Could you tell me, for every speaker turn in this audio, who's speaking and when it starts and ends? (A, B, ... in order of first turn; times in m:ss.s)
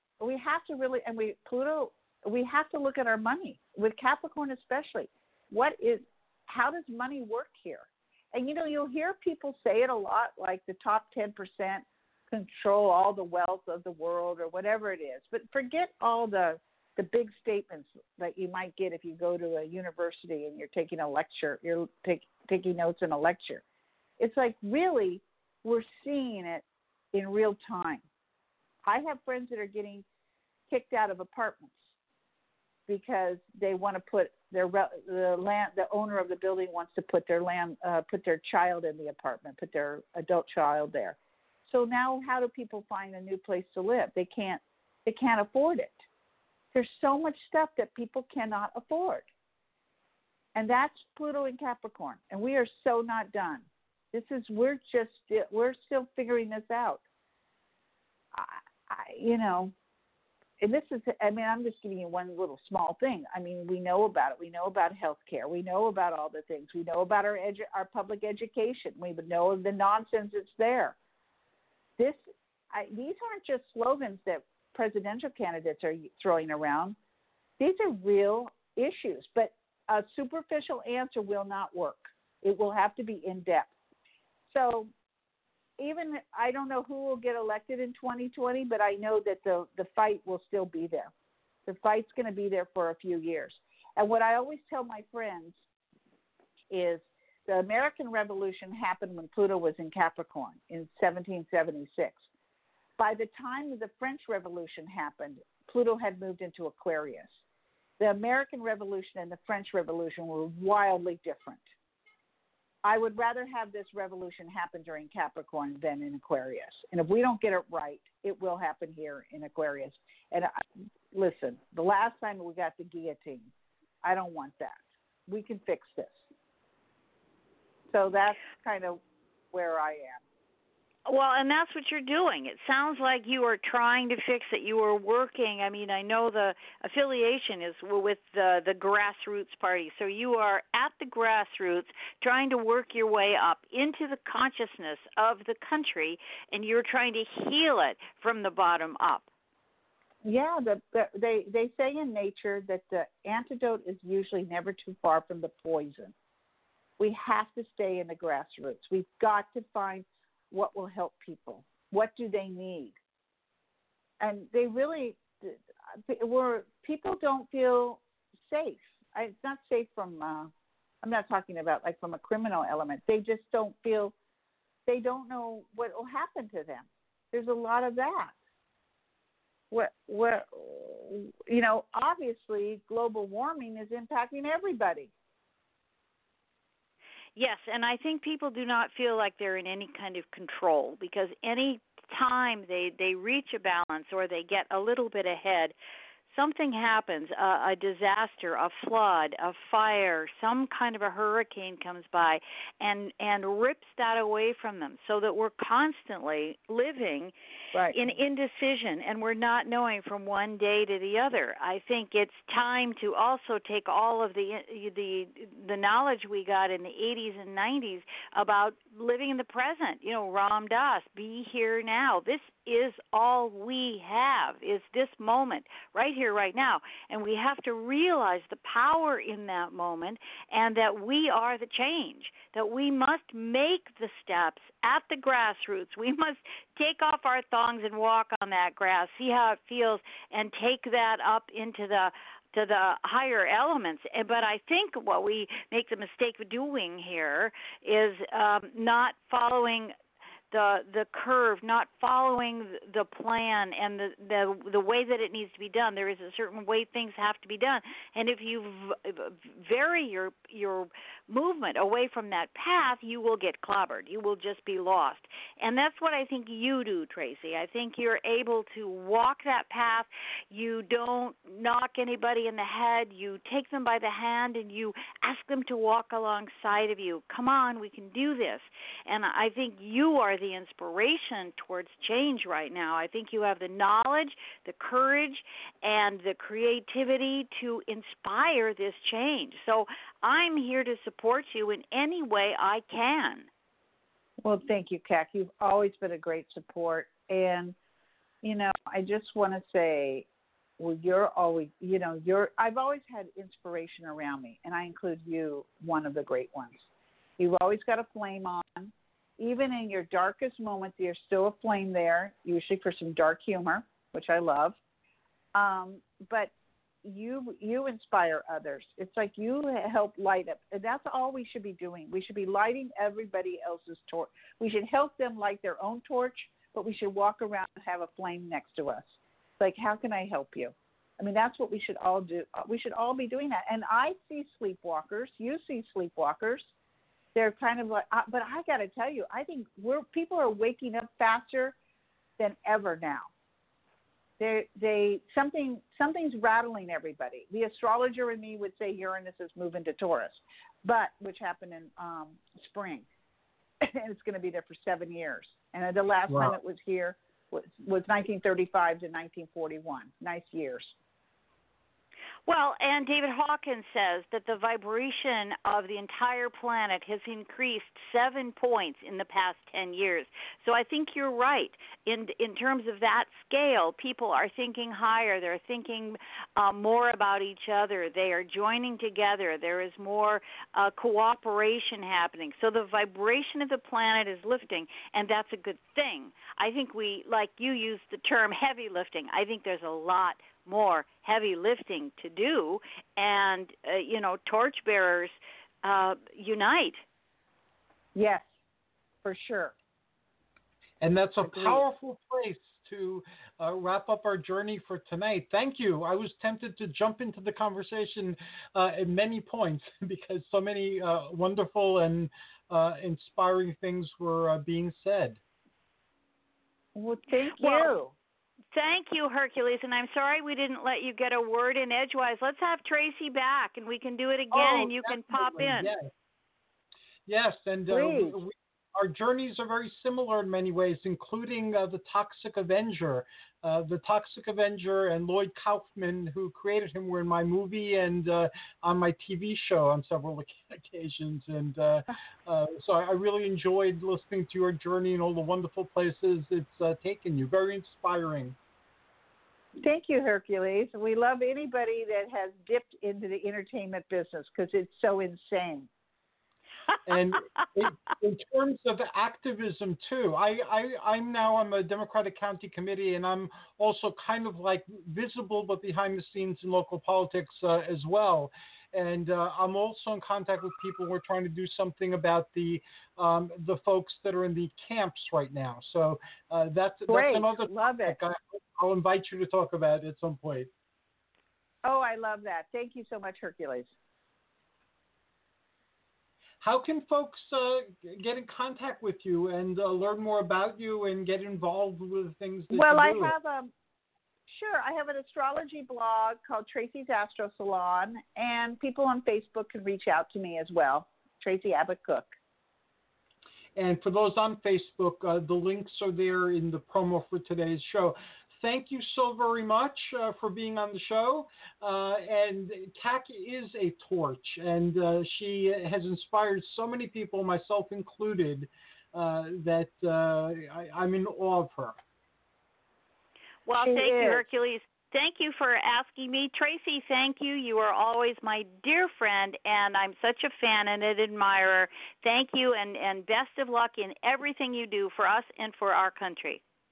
0:00.2-0:23.6 A
0:24.2-0:28.1 A
0:28.8-0:30.0 A
0:30.7-0:31.8 A
0:32.9-0:46.0 A
0:46.7-0:49.3 A
0:50.5-0:57.0 A
0:58.3-0:59.7 A
1:00.6-1:11.0 A
1:12.0-1:17.0 A
1:17.6-1:23.7 A
1:24.5-1:24.9 A
1:25.8-1:31.1 A
1:31.6-1:35.6 A
1:36.7-1:42.3 A
1:43.0-1:47.4 A
1:48.0-1:51.7 A
1:52.8-2:03.5 A
2:04.0-2:06.3 A
2:07.9-2:10.2 A
2:11.1-2:29.3 B
2:30.2-2:36.1 A
2:37.0-2:43.0 A
2:44.2-2:50.5 A
2:51.0-2:54.1 A
2:54.8-2:58.4 A
2:59.7-3:05.1 A
3:07.4-3:15.7 B
3:16.3-3:27.3 B
3:27.9-4:09.9 B
4:10.5-4:53.5 B
4:54.4-4:57.8 A
4:58.4-5:00.3 A
5:00.8-5:14.8 A
5:15.5-5:36.7 A
5:37.3-5:41.8 A
5:42.4-5:43.3 A
5:44.4-5:53.1 A
5:53.8-6:01.0 A
5:56.3-5:56.5 C
6:02.5-6:37.0 B
6:38.1-6:38.5 A
6:39.2-6:39.7 A
6:41.0-6:55.4 C
6:41.4-6:41.8 A
6:56.9-6:58.1 A
6:57.6-6:57.9 B
6:58.7-7:05.9 B
7:04.5-7:06.1 C
7:07.3-7:28.6 C
7:07.9-7:08.4 A
7:29.8-7:35.9 A
7:37.1-8:00.7 C
7:57.1-7:58.2 A
8:01.8-8:03.9 A
8:06.6-8:13.4 C
8:12.7-8:13.7 A
8:14.5-8:22.3 A
8:23.8-8:42.0 C
8:43.6-8:56.6 B
8:43.8-8:44.5 A